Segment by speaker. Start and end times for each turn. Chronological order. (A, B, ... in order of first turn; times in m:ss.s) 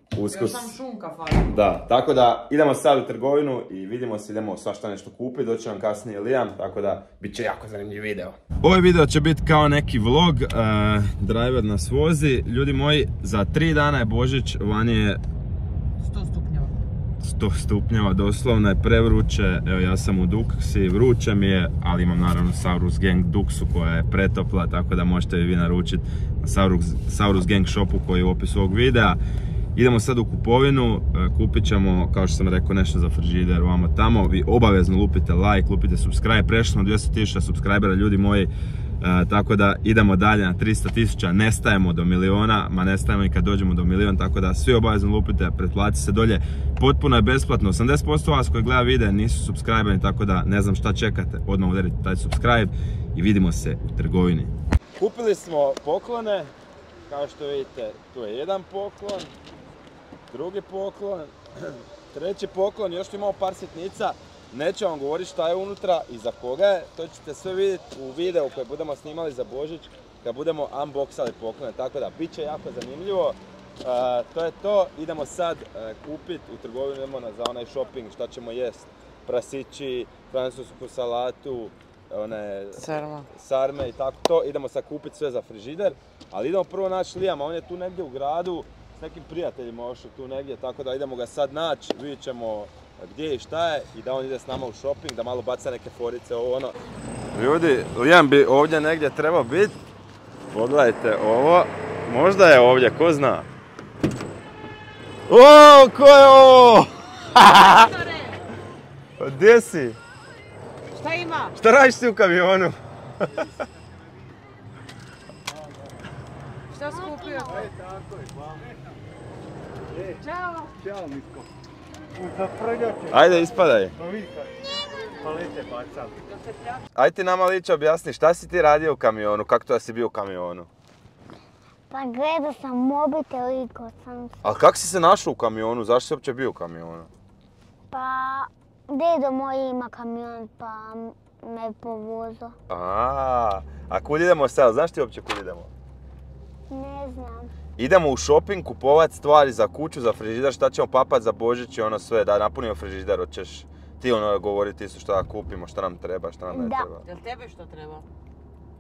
0:00.2-0:00.7 A
0:00.3-0:01.5 B
0:01.5-0:15.2 A
0:16.0-0:16.8 B
0:17.2-0:29.2 A
0:29.8-0:56.5 A
0:57.1-0:59.3 A
1:00.3-1:36.8 A
1:22.8-1:23.3 B
1:37.4-1:39.8 A
1:40.5-1:43.5 A
1:45.3-1:47.9 A
1:47.4-1:48.4 B
1:49.2-1:50.0 A
1:50.9-1:51.5 B
1:51.6-1:52.8 A
1:56.7-1:57.8 B
1:57.3-1:57.7 C
2:03.1-2:04.0 A
2:07.0-2:10.7 A
2:11.9-2:14.4 C
2:14.4-2:17.1 A
2:17.9-2:22.6 C
2:22.7-2:25.7 A
2:26.7-2:27.5 C
2:27.8-2:37.0 A
2:36.5-2:36.9 C
2:37.0-2:38.1 B